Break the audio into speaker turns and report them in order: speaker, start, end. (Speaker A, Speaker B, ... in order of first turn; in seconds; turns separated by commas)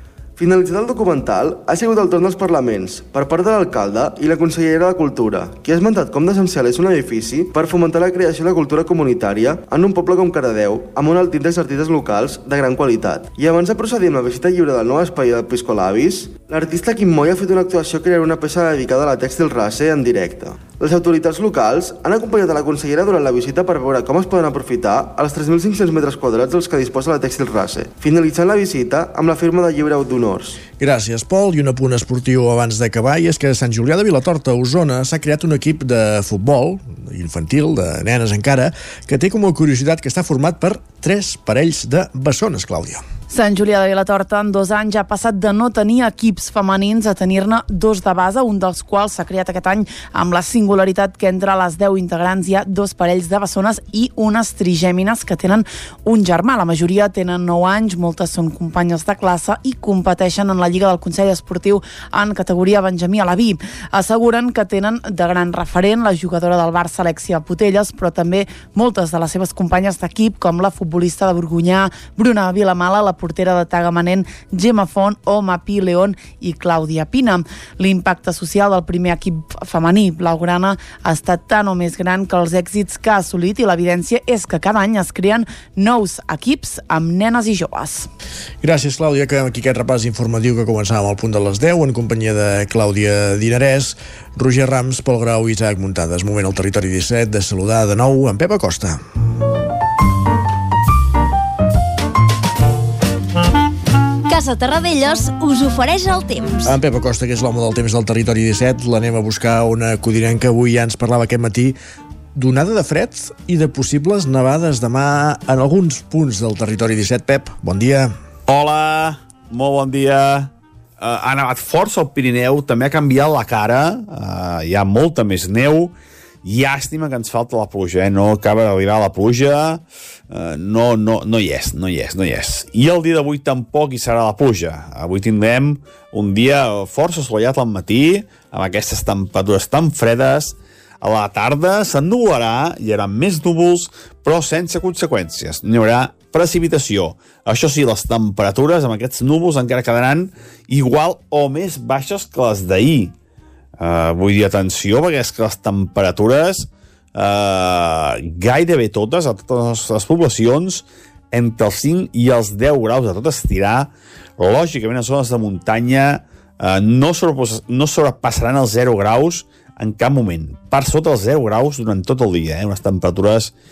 Speaker A: 0.4-30.6, Speaker B: 30.8-43.0, Speaker C: 43.3-88.1, Speaker B: 88.6-99.0, Speaker D: 104.3-106.7, Speaker B: 106.6-111.8, Speaker B: 112.3-118.1, Speaker E: 118.5-153.1, Speaker E: 153.8-173.5